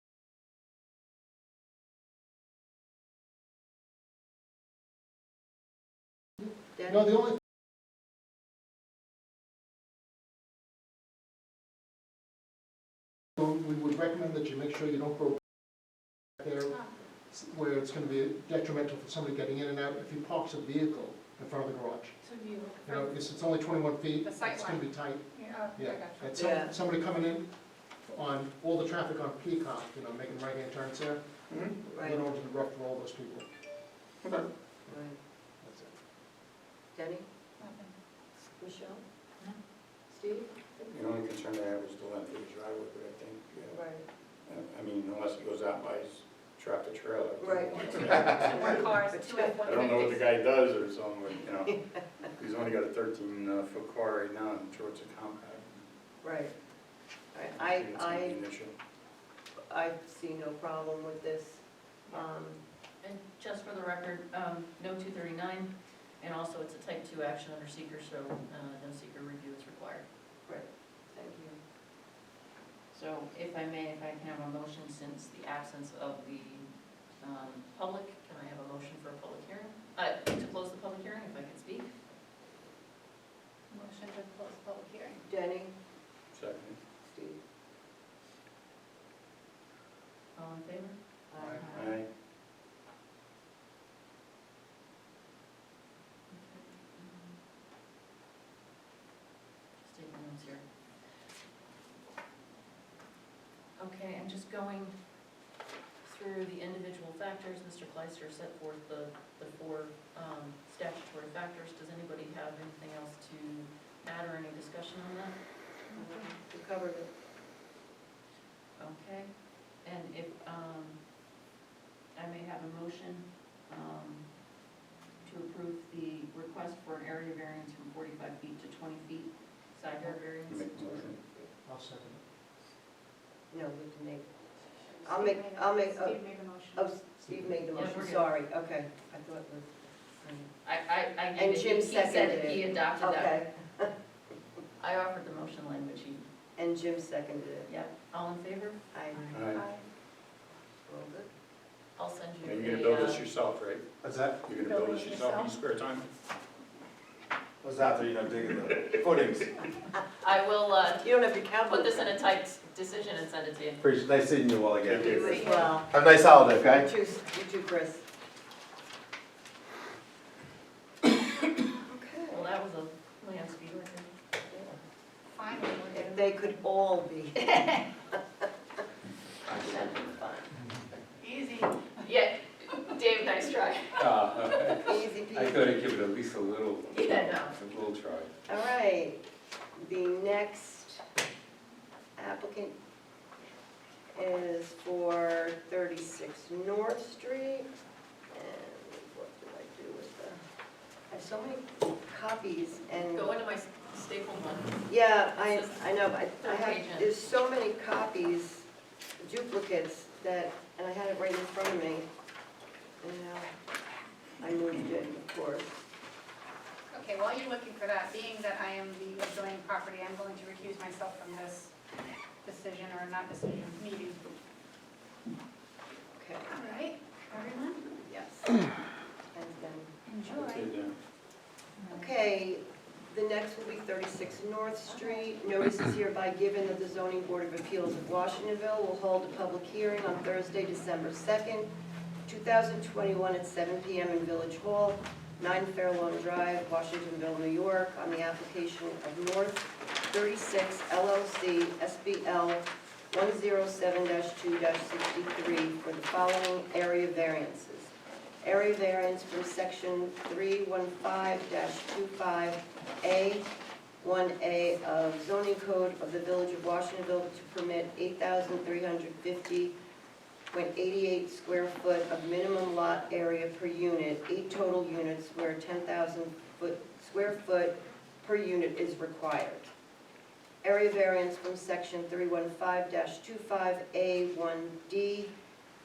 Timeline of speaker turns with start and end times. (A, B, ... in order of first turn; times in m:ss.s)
0:06.9-0:07.4 A
0:13.4-0:15.4 A
0:16.4-0:22.2 A
0:22.8-0:27.5 A
0:24.2-0:26.2 B
0:26.4-0:26.7 C
0:28.0-0:31.2 A
0:31.5-0:31.7 D
0:31.9-0:32.2 C
0:31.9-0:33.5 A
0:34.9-0:35.2 C
0:35.6-0:35.9 A
0:36.9-0:37.2 C
0:37.6-0:37.9 B
0:38.4-0:39.0 C
0:40.1-0:40.5 C
0:40.8-0:43.8 D
0:43.7-0:44.0 C
0:44.5-0:48.8 D
0:47.4-0:49.8 C
0:47.8-0:50.3 B
0:49.6-0:51.7 D
0:52.4-0:55.8 D
0:56.2-0:56.5 C
0:57.3-0:58.4 C
0:57.5-0:58.7 D
0:59.7-1:02.6 C
1:03.0-1:10.0 E
1:10.4-1:11.6 C
1:12.9-1:16.6 E
1:17.2-1:21.9 E
1:23.7-1:25.2 B
1:25.2-1:25.7 C
1:26.3-1:26.8 D
1:27.0-1:27.4 C
1:30.3-1:31.0 E
1:31.3-1:31.7 C
1:31.6-1:32.0 D
1:36.3-1:37.4 E
1:39.8-1:40.6 E
1:43.8-1:44.9 E
1:46.0-1:55.3 E
1:55.9-1:56.3 B
1:56.0-1:57.1 C
1:58.8-1:59.3 E
1:59.8-2:01.0 E
2:02.2-2:04.2 E
2:05.2-2:11.1 E
2:10.5-2:11.1 D
2:10.9-2:11.5 C
2:11.6-2:12.2 A
2:13.5-2:14.2 C
2:15.0-2:17.0 B
2:15.0-2:16.2 C
2:16.7-2:20.5 C
2:17.7-2:18.3 E
2:20.6-2:23.3 E
2:21.4-2:23.9 C
2:24.8-2:26.2 E
2:26.6-2:27.7 C
2:27.7-2:28.8 E
2:28.9-2:29.4 C
2:29.3-2:29.8 B
2:29.3-2:29.6 D
2:30.8-2:31.3 C
2:32.0-2:33.2 E
2:32.4-2:33.8 D
2:34.0-2:34.5 F
2:34.4-2:36.1 D
2:34.5-2:35.5 B
2:37.6-2:39.5 F
2:40.2-2:41.1 E
2:41.0-2:42.1 C
2:41.6-2:43.9 E
2:43.8-2:46.9 F
2:44.8-2:45.4 D
2:45.0-2:46.0 C
2:45.2-2:45.8 B
2:46.5-2:48.0 C
2:51.8-2:52.4 C
2:52.3-2:54.1 E
2:54.5-2:54.8 C
2:55.3-2:56.6 B
2:55.9-2:57.9 C
2:59.4-3:00.5 C
2:59.6-3:00.2 G
3:01.2-3:01.9 B
3:02.0-3:04.1 E
3:04.0-3:08.3 G
3:04.8-3:05.7 C
3:06.9-3:07.6 E
3:08.4-3:09.2 C
3:09.8-3:11.0 C
3:12.2-3:12.7 C
3:14.1-3:17.6 C
3:18.3-3:20.4 C
3:21.1-3:23.3 C
3:23.1-3:24.8 E
3:24.9-3:28.6 C
3:25.4-3:25.9 E
3:26.4-3:27.1 E
3:29.2-3:32.0 C
3:33.0-3:33.5 C
3:34.4-3:35.7 C
3:36.9-3:41.7 B
3:42.4-3:44.2 B
3:46.2-3:46.4 C
3:46.5-3:47.8 B
3:48.0-3:48.5 C
3:49.3-3:49.9 C
3:50.1-3:50.7 B
3:50.3-3:50.9 D
3:51.8-3:52.1 B
3:51.9-4:01.7 C
4:02.3-4:17.9 C
4:18.4-4:23.4 C
4:24.0-4:29.7 C
4:30.5-4:39.7 C
4:40.6-4:45.3 C